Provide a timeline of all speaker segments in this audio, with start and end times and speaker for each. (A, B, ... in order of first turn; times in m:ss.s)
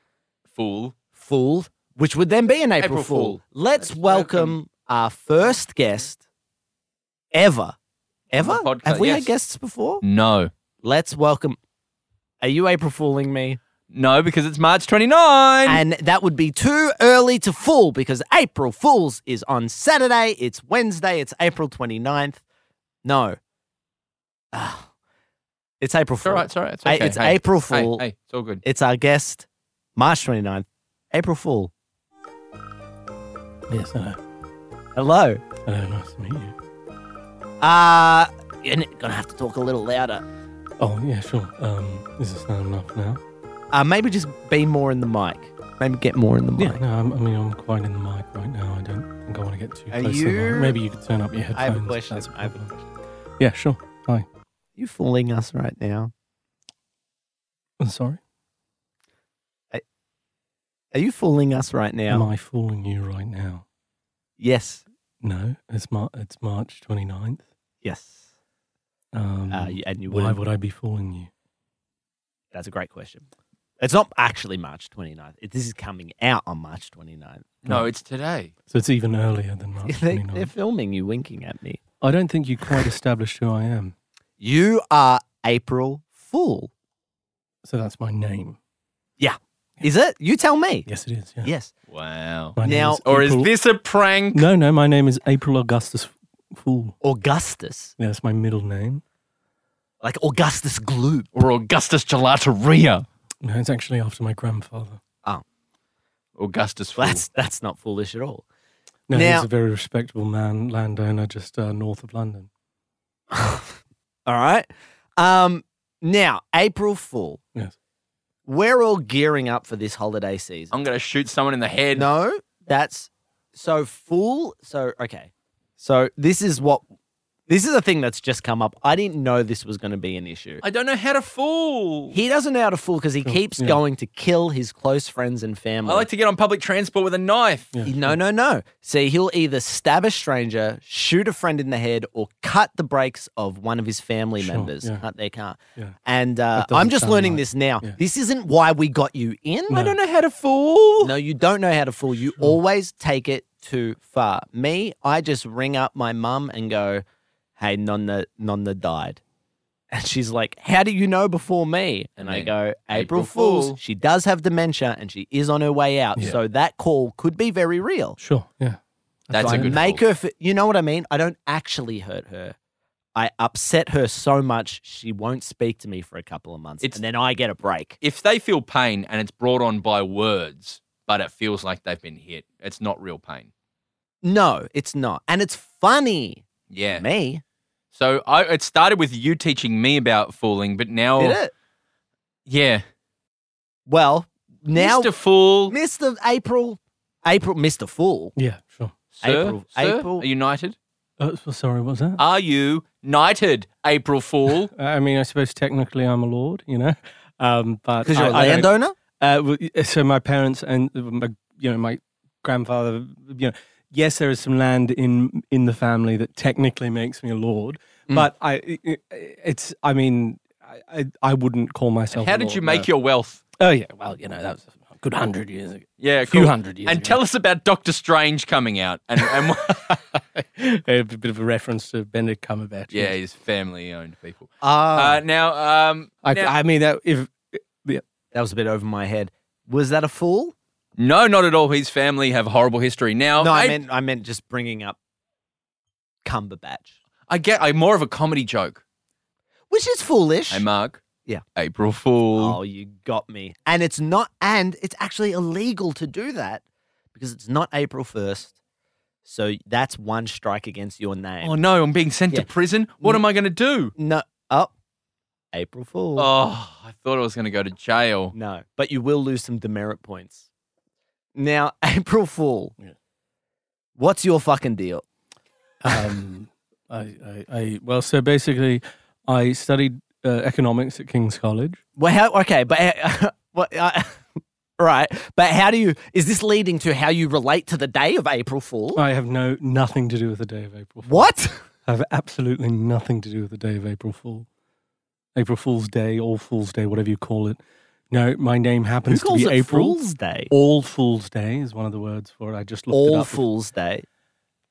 0:00.5-0:01.0 A
0:01.1-0:06.2 B
0:02.8-0:04.6 A
0:07.3-0:07.8 B
0:08.3-0:10.0 B
0:08.3-0:09.3 A
0:10.0-0:10.5 A
0:10.8-0:11.6 B
0:12.4-0:13.6 B
0:13.9-0:15.8 A
0:15.7-0:22.4 B
0:23.0-0:23.4 B
0:24.5-0:24.9 B
0:25.8-0:28.0 B
0:26.2-0:28.6 A
0:28.6-0:31.7 B
0:33.7-0:34.2 C
0:35.0-0:35.4 B
0:35.7-0:36.5 C
0:37.6-0:40.2 B
0:40.8-0:43.2 C
0:43.7-0:46.8 B
0:46.6-0:52.7 C
0:49.9-0:50.8 B
0:51.6-0:52.8 B
0:53.4-0:54.3 C
0:54.8-0:56.1 B
0:57.8-0:58.2 C
1:00.9-1:02.3 B
1:02.1-1:03.6 C
1:04.4-1:04.8 B
1:05.2-1:07.4 C
1:07.8-1:08.2 B
1:09.1-1:11.3 C
1:09.5-1:10.4 B
1:12.5-1:13.3 B
1:13.8-1:17.5 B
1:17.6-1:18.5 A
1:18.7-1:20.5 C
1:19.9-1:21.8 B
1:22.0-1:23.9 C
1:24.4-1:26.7 B
1:27.6-1:28.6 C
1:29.2-1:30.9 B
1:30.9-1:31.5 C
1:31.4-1:31.7 B
1:31.9-1:34.5 A
1:32.6-1:33.5 C
1:32.6-1:33.0 B
1:34.3-1:37.0 C
1:37.0-1:37.9 B
1:38.0-1:39.0 C
1:40.0-1:41.3 B
1:41.4-1:43.1 A
1:43.4-1:45.0 C
1:46.4-1:47.2 A
1:47.0-1:48.4 B
1:49.1-1:52.5 C
1:49.1-1:49.5 B
1:53.3-1:53.8 B
1:54.3-1:57.4 B
1:58.5-2:00.8 B
2:00.7-2:02.1 A
2:02.0-2:06.8 B
2:07.5-2:10.6 B
2:10.6-2:12.2 A
2:12.1-2:16.1 B
2:13.2-2:13.8 C
2:15.8-2:17.8 A
2:17.7-2:18.2 C
2:17.8-2:29.8 B
2:24.4-2:25.0 C
2:26.6-2:28.0 C
2:29.7-2:30.0 C
2:29.7-2:31.1 A
2:31.0-2:37.0 B
2:37.6-2:39.2 B
2:39.9-2:48.2 B
2:42.2-2:43.8 A
2:48.2-2:49.8 C
2:49.3-2:50.0 A
2:49.4-2:52.6 B
2:53.2-2:58.0 B
2:58.0-3:03.5 A
3:04.2-3:07.4 B
3:06.7-3:07.0 A
3:07.9-3:11.4 A
3:11.2-3:11.5 B
3:12.5-3:12.8 A
3:13.9-3:15.1 B
3:14.8-3:15.8 A
3:15.7-3:18.3 B
3:18.4-3:18.9 C
3:19.2-3:20.8 A
3:19.2-3:20.3 B
3:21.2-3:22.2 C
3:22.2-3:24.7 A
3:24.8-3:42.9 C
3:28.0-3:29.0 B
3:42.1-3:43.4 A
3:43.6-3:47.2 C
3:46.0-3:49.9 A
3:49.2-3:53.2 C
3:52.9-3:56.6 A
3:54.6-3:55.2 B
3:56.2-3:58.0 C
3:58.3-4:00.5 B
4:01.0-4:03.8 A
4:03.4-4:05.0 B
4:06.2-4:06.9 B
4:07.3-4:08.8 A
4:09.7-4:10.6 B
4:10.5-4:11.0 A
4:11.6-4:12.6 A
4:12.4-4:16.6 B
4:17.2-4:18.6 B
4:19.2-4:21.6 B
4:21.4-4:23.9 A
4:24.0-4:24.7 B
4:25.5-4:26.3 B
4:26.2-4:28.3 A
4:28.3-4:30.5 B
4:31.4-4:32.7 B
4:34.0-4:35.0 B
4:35.8-4:41.8 C
4:42.0-4:49.0 B
4:49.0-4:51.3 C
4:51.0-4:51.6 B
4:51.8-4:54.5 C
4:55.4-5:00.0 C
4:59.1-5:00.5 B
5:00.5-5:03.4 C
5:02.9-5:04.1 B